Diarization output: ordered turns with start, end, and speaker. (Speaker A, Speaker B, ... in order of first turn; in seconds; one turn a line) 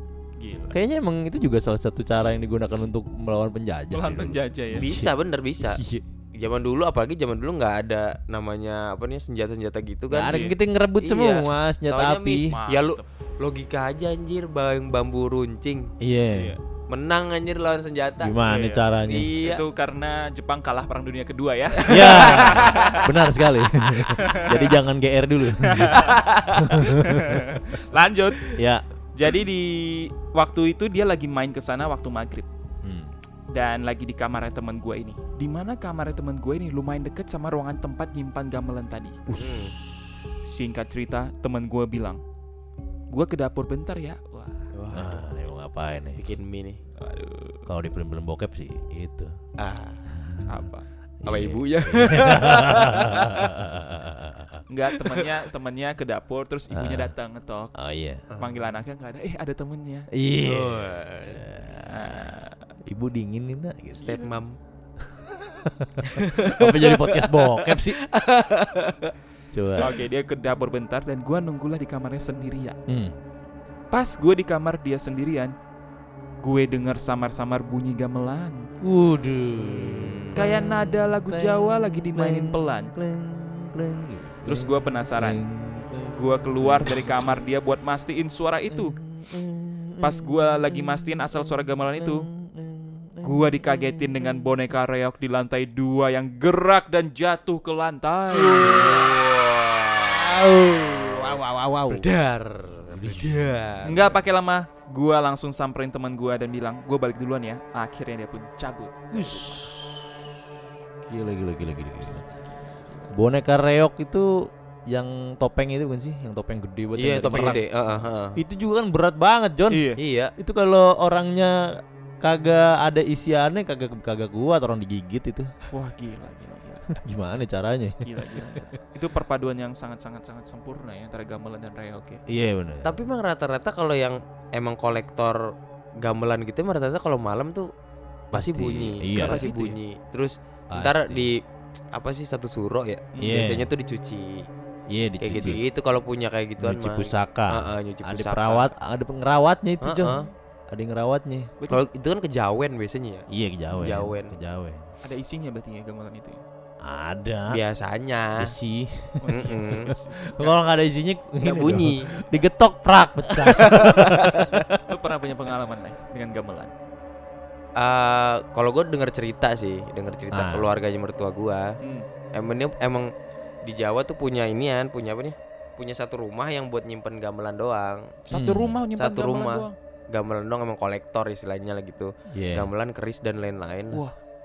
Speaker A: 0.4-0.8
Speaker B: 0.7-5.1
Speaker A: 3.9-4.9
Speaker C: 4.8-5.8
Speaker B: 5.6-6.0
Speaker C: 6.3-15.9
Speaker B: 10.1-12.5
Speaker A: 10.2-10.6
Speaker A: 12.5-13.0
Speaker B: 16.0-16.6
Speaker A: 16.3-16.6
Speaker C: 16.9-19.6
Speaker B: 18.2-19.3
Speaker A: 18.4-23.1
Speaker C: 21.8-22.9
Speaker B: 21.9-27.6
Speaker A: 24.1-24.8
Speaker A: 25.6-28.6
Speaker C: 25.9-26.7
Speaker B: 28.5-28.8
Speaker A: 29.1-32.5
Speaker B: 32.8-33.1
Speaker A: 33.5-39.2
Speaker B: 39.3-39.5
Speaker C: 39.3-39.7
Speaker A: 40.5-42.2
Speaker A: 43.1-44.7
Speaker C: 44.7-45.2
Speaker B: 44.9-46.2
Speaker C: 46.2-46.8
Speaker A: 47.0-47.6
Speaker B: 47.7-49.4
Speaker C: 49.6-50.0
Speaker B: 50.1-50.5
Speaker A: 50.5-50.9
Speaker B: 51.2-54.6
Speaker C: 51.3-53.5
Speaker A: 54.7-57.7
Speaker B: 56.7-57.1
Speaker B: 57.8-58.3
Speaker C: 58.3-58.5
Speaker A: 58.4-60.1
Speaker B: 60.1-62.4
Speaker C: 60.4-61.4
Speaker A: 61.9-62.7
Speaker B: 62.9-64.2
Speaker C: 64.0-64.6
Speaker A: 64.0-64.4
Speaker B: 65.6-68.0
Speaker C: 66.0-69.1
Speaker B: 69.5-69.9
Speaker A: 69.8-72.8
Speaker B: 72.9-73.2
Speaker A: 73.9-75.5
Speaker A: 76.4-78.7
Speaker B: 78.8-87.4
Speaker C: 79.6-80.4
Speaker A: 80.3-82.9
Speaker A: 84.5-85.4
Speaker A: 86.1-89.0
Speaker B: 88.7-94.5
Speaker A: 90.0-92.3
Speaker A: 93.2-99.1
Speaker B: 98.3-99.2
Speaker C: 98.7-104.2
Speaker B: 100.1-102.1
Speaker B: 102.9-103.6
Speaker A: 103.8-109.7
Speaker B: 109.1-110.0
Speaker B: 111.0-112.2
Speaker A: 112.1-113.1
Speaker B: 113.1-117.6
Speaker C: 117.0-118.4
Speaker A: 117.2-118.0
Speaker B: 118.4-125.5
Speaker A: 119.7-120.0
Speaker C: 120.0-120.3
Speaker A: 125.7-127.0
Speaker B: 127.0-128.7
Speaker A: 128.0-132.2
Speaker B: 132.3-133.0
Speaker C: 132.8-137.7
Speaker C: 138.3-141.4
Speaker B: 138.3-139.5
Speaker A: 139.1-139.8
Speaker B: 140.7-141.3
Speaker C: 141.9-144.5
Speaker B: 143.2-143.7
Speaker B: 144.9-145.6
Speaker C: 145.2-148.7
Speaker B: 146.6-151.5
Speaker C: 149.8-150.3
Speaker C: 151.7-154.4
Speaker B: 153.3-154.9
Speaker A: 155.0-156.4
Speaker B: 156.8-157.6
Speaker C: 157.5-158.5
Speaker B: 158.4-159.2
Speaker A: 159.2-160.6
Speaker C: 159.3-159.9
Speaker B: 159.9-164.8
Speaker C: 161.4-162.1
Speaker C: 163.5-164.6
Speaker A: 164.9-166.7
Speaker C: 167.8-171.7
Speaker B: 170.3-170.8
Speaker A: 171.8-172.1
Speaker C: 172.3-173.1
Speaker C: 173.6-178.2
Speaker A: 178.2-179.8
Speaker B: 178.3-178.8
Speaker C: 178.9-184.0
Speaker B: 182.3-182.7